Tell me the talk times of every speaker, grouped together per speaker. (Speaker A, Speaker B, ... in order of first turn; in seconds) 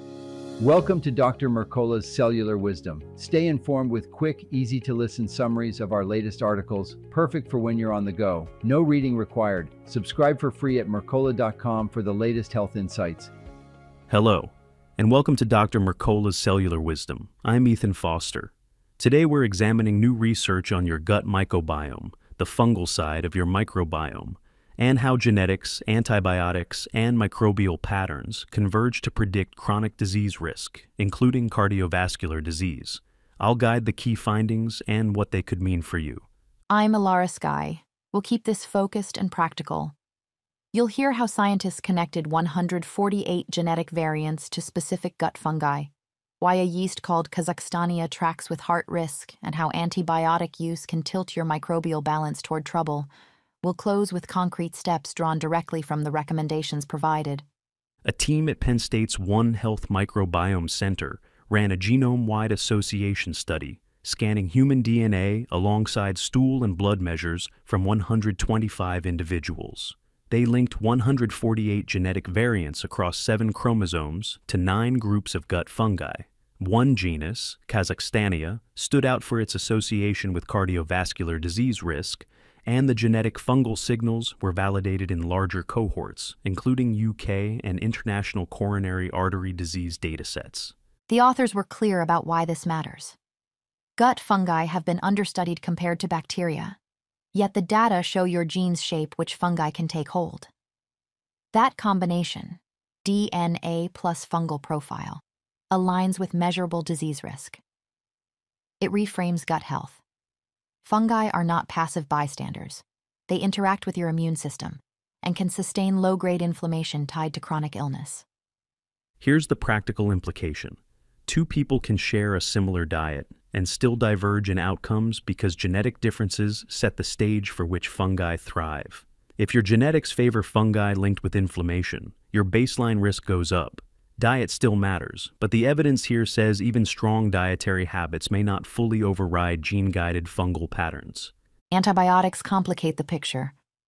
Speaker A: 0.6-13.3
Speaker B: 14.1-36.2, 58.0-90.7, 119.2-141.3
Speaker C: 36.7-39.9, 40.7-53.1, 53.6-57.4, 91.1-93.2, 94.0-96.8, 97.3-100.5, 101.5-107.6, 108.8-110.0, 110.8-118.2, 141.7-143.5